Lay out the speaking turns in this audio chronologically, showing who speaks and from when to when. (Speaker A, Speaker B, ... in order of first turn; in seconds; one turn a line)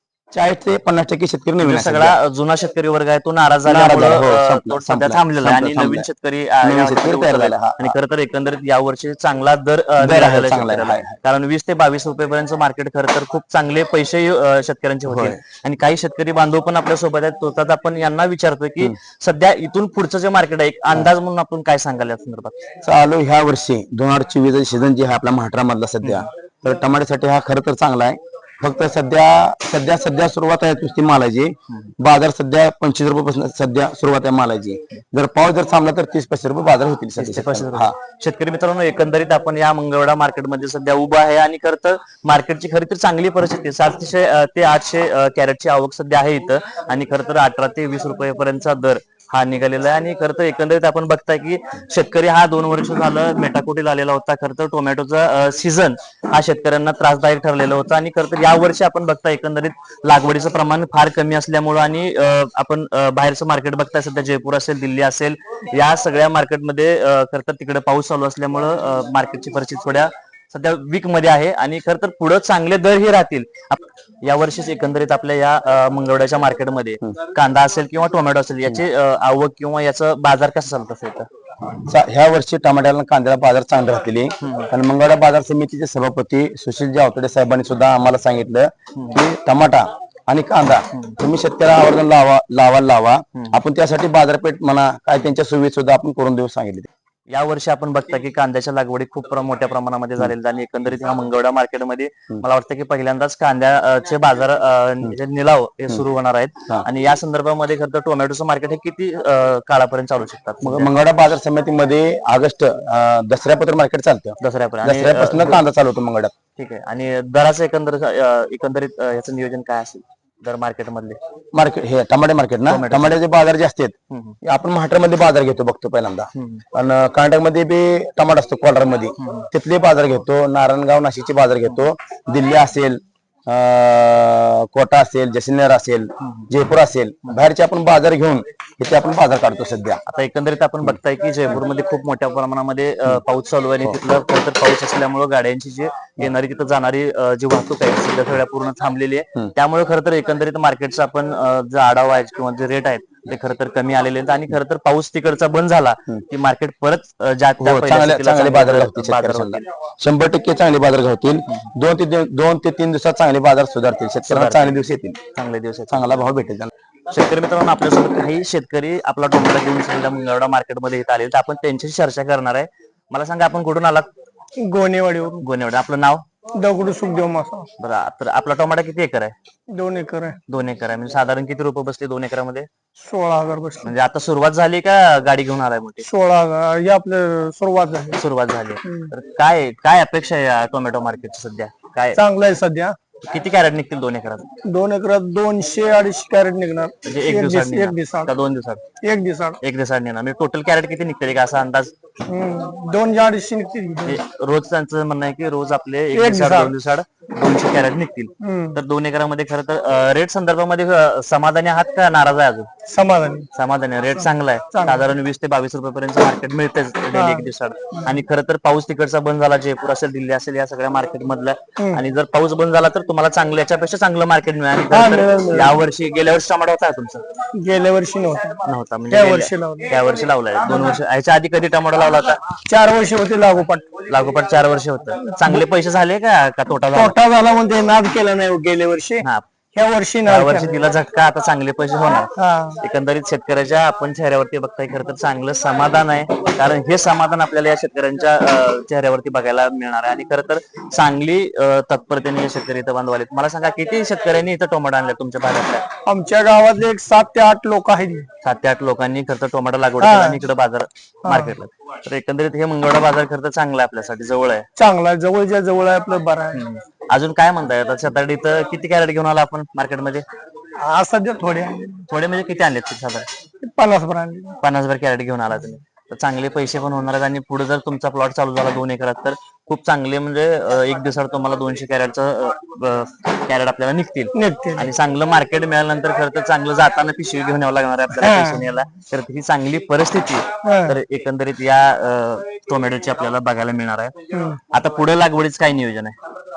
Speaker A: 0.3-2.2
Speaker B: 1.6-22.6
Speaker A: 3.6-6.1
Speaker A: 6.6-8.0
Speaker A: 10.0-11.1
Speaker A: 15.1-15.4
Speaker A: 22.8-37.9
Speaker B: 26.0-26.3
Speaker B: 37.2-81.3
Speaker A: 81.8-96.9
Speaker B: 84.4-84.7
Speaker B: 90.9-91.2
Speaker B: 97.3-110.9
Speaker A: 110.6-116.3
Speaker B: 114.4-115.6
Speaker B: 116.6-121.2
Speaker A: 121.5-140.0
Speaker B: 122.7-123.2
Speaker B: 124.1-124.4
Speaker B: 126.3-126.7
Speaker B: 129.2-129.5
Speaker B: 136.2-136.5
Speaker B: 140.1-159.7
Speaker A: 157.6-165.2
Speaker B: 164.3-164.8
Speaker B: 165.3-166.2
Speaker A: 165.9-166.7
Speaker B: 167.1-174.1
Speaker C: 174.6-175.4
Speaker B: 175.4-176.2
Speaker C: 176.5-177.7
Speaker B: 177.8-179.3
Speaker C: 179.7-180.4
Speaker B: 180.5-182.7
Speaker C: 183.0-183.9
Speaker B: 183.8-186.1
Speaker C: 186.0-188.2
Speaker B: 188.2-192.2
Speaker C: 188.8-189.1
Speaker C: 192.2-192.9
Speaker B: 193.2-194.5
Speaker C: 194.7-198.3
Speaker B: 197.0-198.8
Speaker C: 199.0-199.6
Speaker B: 199.6-201.9
Speaker C: 202.3-204.2
Speaker B: 204.1-212.7
Speaker C: 206.1-206.7
Speaker C: 208.4-208.8
Speaker C: 212.9-213.5
Speaker B: 213.6-227.2
Speaker C: 214.7-215.1
Speaker C: 217.1-218.1
Speaker C: 221.8-222.0
Speaker C: 224.9-225.8
Speaker C: 227.5-229.9
Speaker B: 228.7-232.4
Speaker C: 230.7-231.0
Speaker C: 232.7-234.0
Speaker B: 234.1-237.2
Speaker C: 235.3-235.6
Speaker C: 236.9-240.9
Speaker B: 240.2-255.9
Speaker C: 242.4-242.8
Speaker C: 256.1-258.3
Speaker B: 258.4-264.7
Speaker C: 260.0-260.4
Speaker C: 261.2-261.6
Speaker C: 264.8-266.6
Speaker B: 266.5-270.2
Speaker C: 270.8-272.1
Speaker B: 272.1-273.3
Speaker C: 273.6-274.6
Speaker B: 274.6-294.1
Speaker C: 284.3-284.9
Speaker C: 288.1-288.6
Speaker C: 290.6-291.0
Speaker C: 294.3-294.6
Speaker B: 294.7-296.2